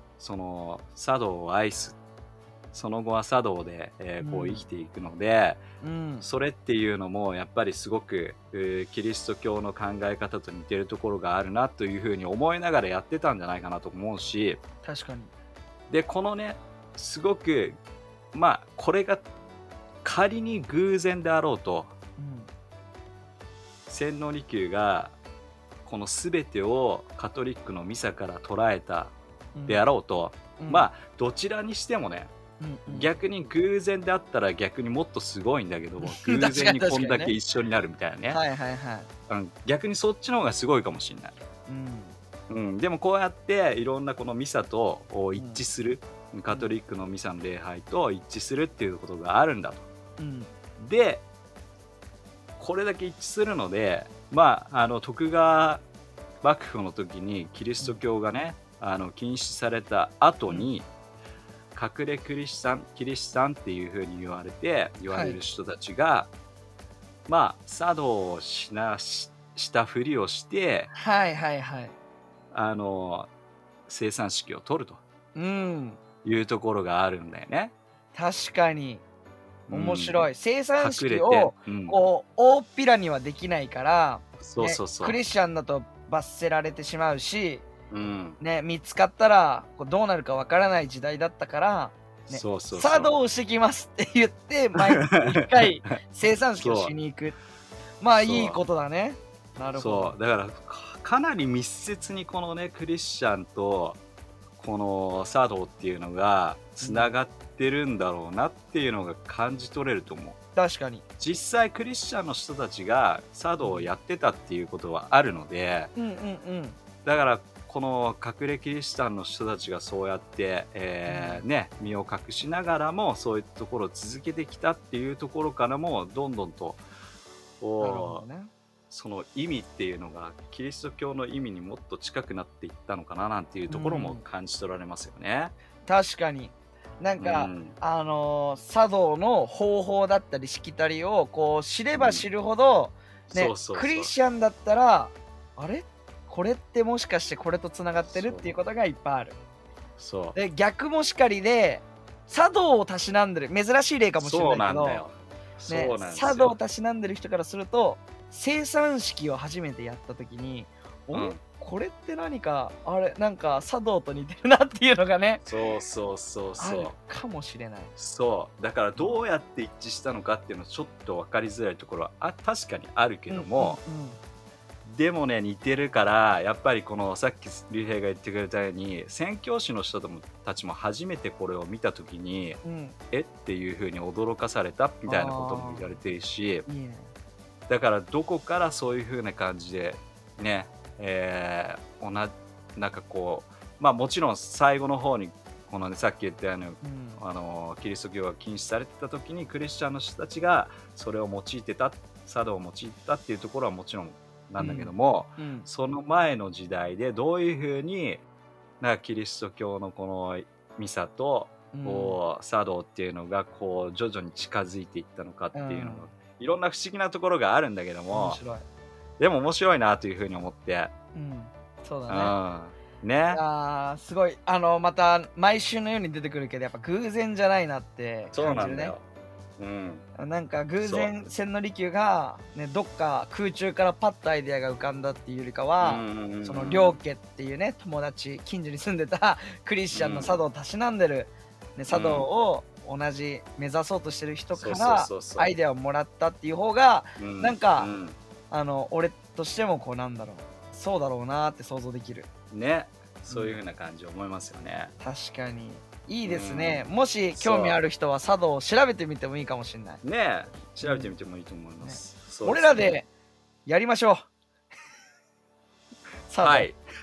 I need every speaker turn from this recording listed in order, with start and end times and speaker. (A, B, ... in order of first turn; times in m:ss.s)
0:00.2-0:02.0 A
0:02.7-0:05.6 A
0:04.2-0:04.7 B
0:05.8-0:06.3 B
0:06.2-0:14.6 A
0:14.8-0:15.3 B
0:15.9-0:17.8 A
0:18.3-0:19.2 A
0:20.0-0:21.9 A
0:22.2-0:22.5 B
0:23.9-0:25.2 A
0:25.8-0:29.1 A
0:29.6-0:29.8 B
0:29.7-0:32.3 A
0:30.6-0:30.9 B
0:32.6-0:33.1 B
0:32.9-0:38.4 A
0:36.0-0:37.3 B
0:38.3-0:39.1 B
0:39.3-0:41.4 A
0:41.7-0:42.2 B
0:42.5-0:49.8 A
0:45.4-0:45.6 B
0:50.2-0:50.5 B
0:50.8-0:51.2 A
0:52.6-0:55.8 A
0:56.4-1:00.9 A
1:01.7-1:06.3 A
1:05.1-1:05.4 B
1:07.3-1:10.9 A
1:10.9-1:12.0 B
1:12.5-1:13.3 A
1:13.9-1:15.0 A
1:15.4-1:16.0 B
1:16.2-1:17.7 A
1:18.1-1:19.0 B
1:19.7-1:20.2 A
1:19.7-1:27.7 B
1:20.8-1:22.0 A
1:24.4-1:25.2 A
1:27.9-1:28.4 A
1:28.4-1:37.4 B
1:32.3-1:33.2 A
1:34.8-1:35.9 A
1:36.6-1:36.9 A
1:38.0-1:40.2 B
1:38.2-1:38.6 A
1:39.8-1:44.0 A
1:44.6-1:50.4 A
1:46.8-1:47.2 B
1:50.6-1:51.0 B
1:51.2-1:55.9 A
1:53.6-1:53.9 B
1:56.0-1:56.8 B
1:57.0-2:06.8 A
2:01.1-2:01.4 B
2:07.6-2:08.2 A
2:07.8-2:08.5 B
2:08.9-2:15.5 A
2:13.7-2:14.2 B
2:15.9-2:29.4 B
2:17.2-2:17.8 A
2:21.9-2:22.2 A
2:23.3-2:24.1 A
2:28.1-2:28.5 A
2:30.0-2:30.4 A
2:30.4-2:35.1 B
2:34.2-2:36.5 A
2:35.7-2:45.4 B
2:41.1-2:41.4 A
2:45.4-2:46.9 A
2:46.6-2:47.9 B
2:48.0-2:53.8 A
2:53.3-2:54.2 B
2:54.8-3:02.6 A
3:02.6-3:03.0 B
3:03.1-3:06.7 A
3:05.1-3:06.0 B
3:06.7-3:07.1 B
3:07.7-3:28.2 A
3:16.8-3:17.2 B
3:24.6-3:25.7 B
3:28.8-3:38.4 A
3:31.7-3:32.2 B
3:35.5-3:36.1 B
3:38.1-3:38.7 B
3:39.2-3:40.9 A
3:41.1-3:42.3 B
3:42.1-3:43.4 A
3:43.3-3:49.0 B
3:48.3-3:49.0 A
3:49.6-3:50.0 A
3:50.2-4:07.9 B
3:50.8-3:51.1 A
3:55.8-3:57.0 A
3:59.9-4:00.4 A
4:01.9-4:02.3 A
4:04.5-4:05.5 A
4:07.2-4:08.2 A
4:08.5-4:12.3 B
4:12.5-4:14.9 A
4:13.3-4:13.6 B
4:15.0-4:20.0 B
4:16.2-4:17.8 A
4:20.0-4:23.0 A
4:20.8-4:21.1 B
4:21.8-4:23.1 B
4:23.7-4:24.2 B
4:26.3-4:26.7 B
4:26.4-4:26.8 A